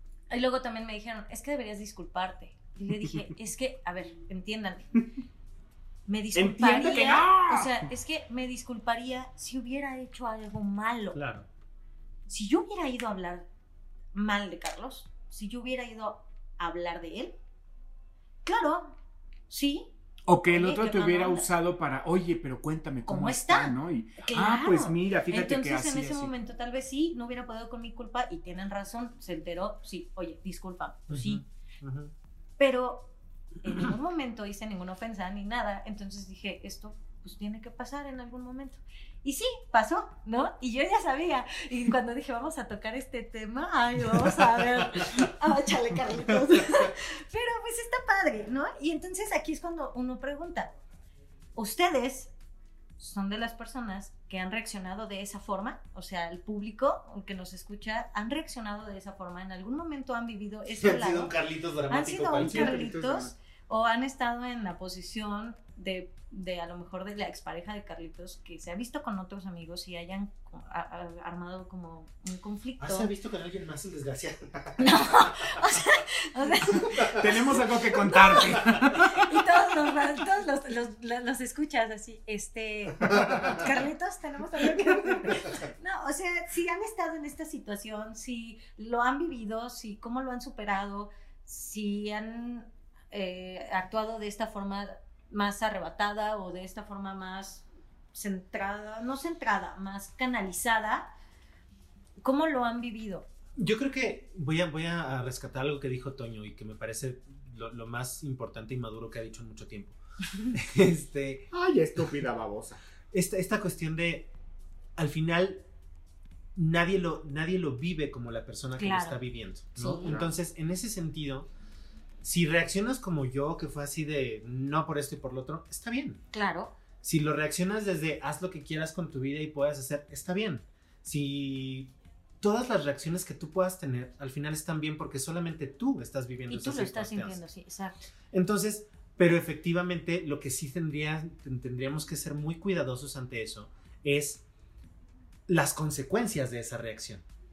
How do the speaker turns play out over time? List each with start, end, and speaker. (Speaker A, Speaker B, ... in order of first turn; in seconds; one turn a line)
Speaker A: 0.3-4.9
Speaker A: 6.1-11.2
Speaker B: 6.3-7.9
Speaker C: 11.1-11.5
Speaker A: 12.3-13.5
Speaker A: 14.1-17.4
Speaker A: 18.4-18.9
Speaker A: 19.5-19.9
Speaker B: 20.3-26.3
Speaker A: 20.5-21.5
Speaker A: 23.1-31.4
Speaker C: 31.1-32.1
Speaker A: 32.6-50.7
Speaker A: 51.5-52.3
Speaker A: 53.0-61.3
Speaker C: 60.8-62.9
Speaker A: 61.9-73.1
Speaker B: 62.4-63.3
Speaker C: 72.8-75.8
Speaker A: 74.8-101.1
Speaker C: 76.7-77.2
Speaker B: 76.8-79.3
Speaker C: 83.1-83.6
Speaker A: 102.2-103.3
Speaker C: 103.6-110.0
Speaker C: 110.5-111.5
Speaker B: 111.5-112.8
Speaker C: 113.1-114.3
Speaker C: 115.0-115.6
Speaker C: 116.5-121.5
Speaker A: 118.8-119.2
Speaker A: 119.8-120.2
Speaker B: 120.0-120.3
Speaker C: 122.2-126.2
Speaker A: 126.3-126.7
Speaker C: 127.0-137.4
Speaker A: 136.5-138.0
Speaker C: 138.3-144.4
Speaker C: 145.5-147.2